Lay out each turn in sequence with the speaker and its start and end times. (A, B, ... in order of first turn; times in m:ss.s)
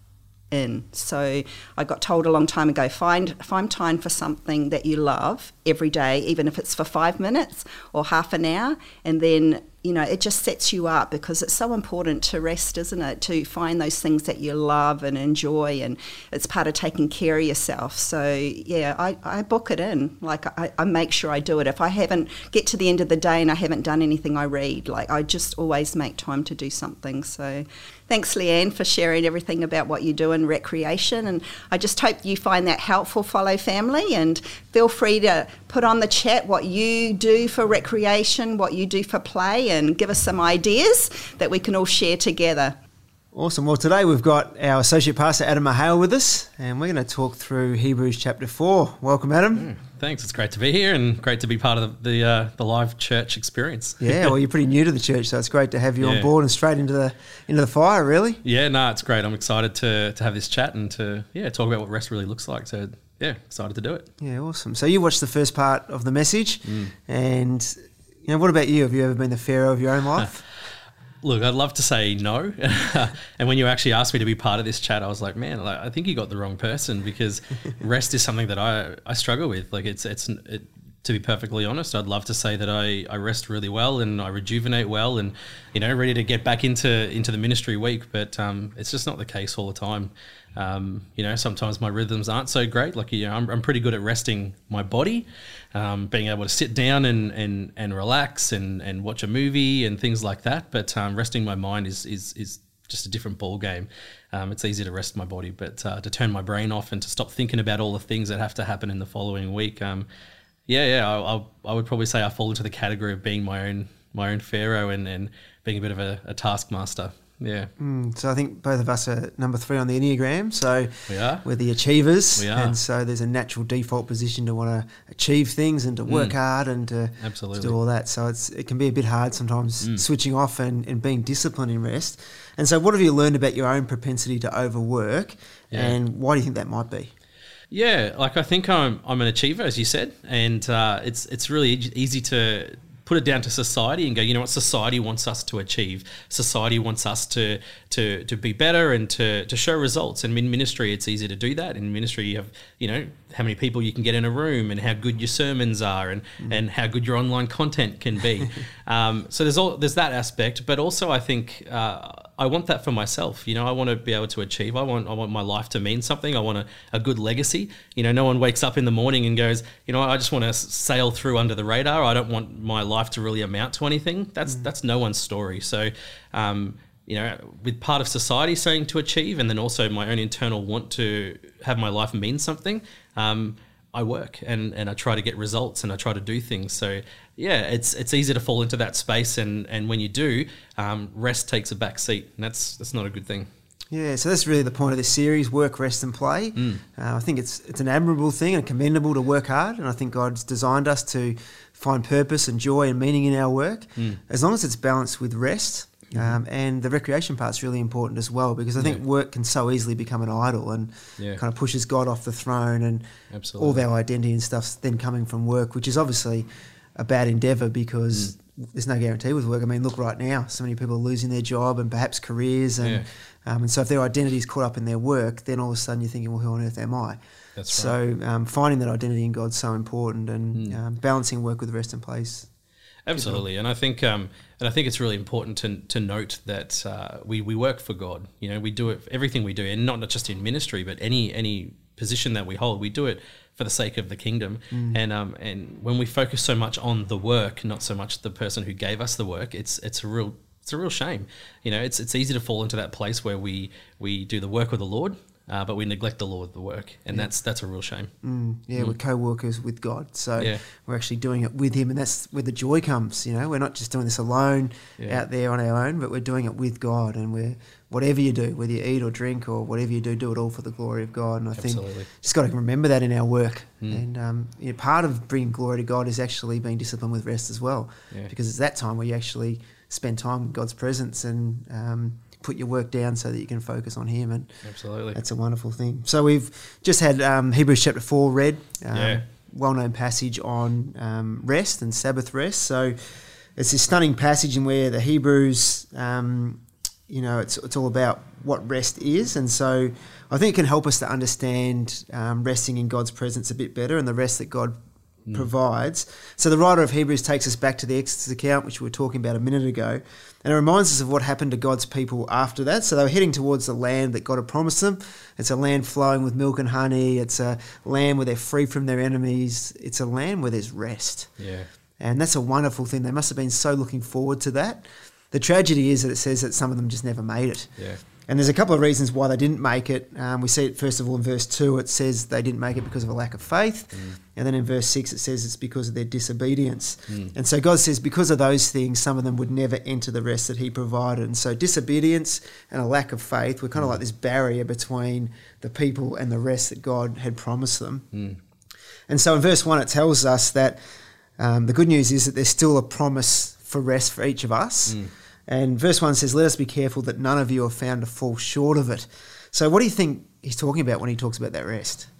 0:00.5-0:42.8 A
0:43.3-0:49.7 B
0:49.6-0:54.4 C
0:54.0-0:58.4 B
0:56.0-0:56.3 C
0:58.4-1:04.1 C
1:04.2-1:10.4 B
1:06.7-1:06.9 C
1:11.2-1:50.1 C
1:50.7-1:57.7 C
1:57.8-2:17.1 B
2:01.1-2:01.4 C
2:02.4-2:02.8 C
2:06.1-2:06.3 C
2:07.2-2:07.8 C
2:15.7-2:16.0 C
2:17.7-3:13.5 C
3:13.9-3:47.2 B
3:26.1-3:26.4 C
3:33.3-3:33.8 C
3:42.8-3:43.1 C
3:47.6-3:48.0 C
3:47.7-3:52.5 B
3:53.0-4:18.1 C
3:53.1-3:53.4 B
4:04.7-4:05.0 B
4:18.2-4:44.5 B
4:25.0-4:25.2 C
4:31.6-4:32.1 C
4:44.6-4:45.2 C
4:45.1-4:53.0 B
4:48.9-4:49.2 C
4:53.6-5:04.8 B
5:05.3-5:21.3 B
5:21.4-5:21.7 C
5:22.0-5:27.7 B
5:28.2-5:48.1 B
5:37.1-5:37.3 C
5:43.8-5:44.0 C
5:48.1-5:48.4 C
5:49.1-5:50.8 B
5:51.4-6:02.1 B